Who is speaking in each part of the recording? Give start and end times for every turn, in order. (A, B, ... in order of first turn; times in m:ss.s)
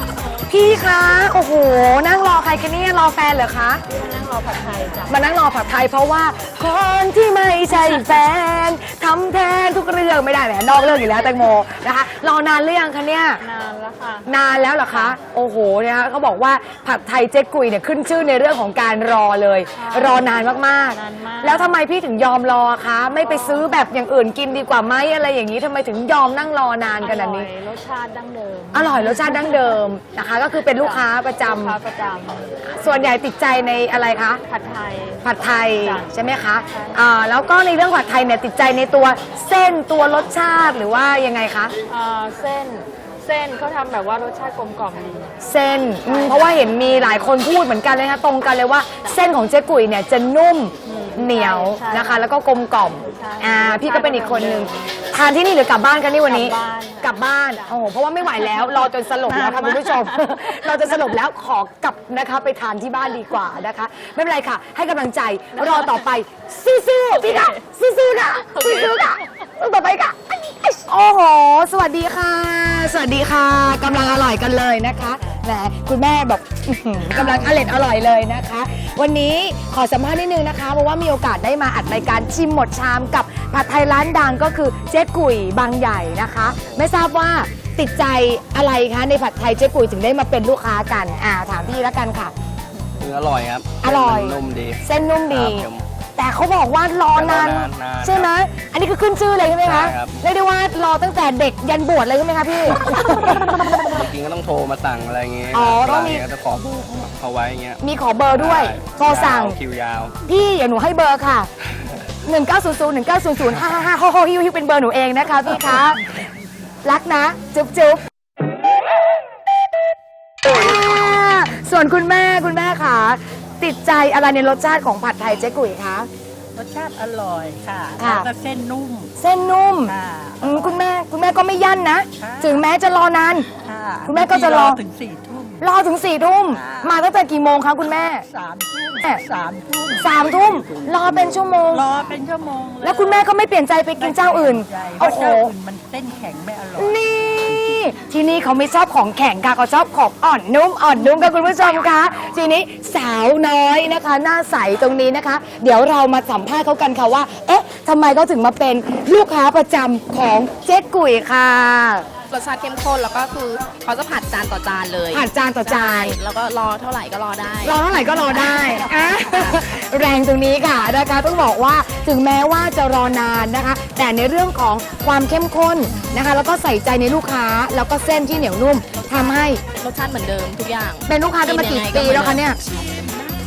0:00.5-0:03.8 A
0:03.9-0:05.2 B
0:05.1-0:13.4 A
0:13.4-0:14.3 B
0:14.3-0:27.5 A
0:19.8-0:20.2 B
0:21.0-0:21.8 B
0:23.2-0:23.7 B
0:27.0-0:29.7 B
0:28.7-0:31.8 A
0:30.8-0:32.9 B
0:32.8-0:34.4 A
0:34.5-0:36.1 B
0:35.2-0:41.7 A
0:36.7-0:37.0 B
0:41.9-0:45.3 B
0:45.4-1:32.3 A
0:46.1-0:47.3 B
0:50.9-0:52.2 B
0:53.1-0:54.8 B
0:56.3-0:57.7 B
0:59.3-1:00.4 B
1:08.5-1:09.0 B
1:33.0-1:35.8 C
1:33.8-1:43.8 A
1:37.1-1:38.3 C
1:39.6-1:40.2 C
1:42.9-1:50.1 C
1:45.5-1:46.2 A
1:47.8-1:49.6 A
1:50.3-1:51.5 A
1:52.3-1:56.2 A
1:56.8-1:58.0 A
2:00.4-2:06.1 A
2:06.6-2:09.1 D
2:08.0-2:08.3 A
2:09.2-2:13.5 A
2:09.9-2:10.7 D
2:12.2-2:12.6 D
2:13.6-2:15.6 D
2:14.1-2:14.8 A
2:15.6-2:18.2 A
2:16.5-2:17.0 D
2:18.2-2:21.1 D
2:20.0-2:21.9 A
2:21.7-2:23.3 D
2:22.8-2:25.5 A
2:24.0-2:27.7 D
2:26.8-2:42.1 A
2:42.3-2:49.6 E
2:45.1-2:46.2 A
2:47.6-2:59.6 A
2:58.9-3:03.2 E
3:01.1-3:02.6 A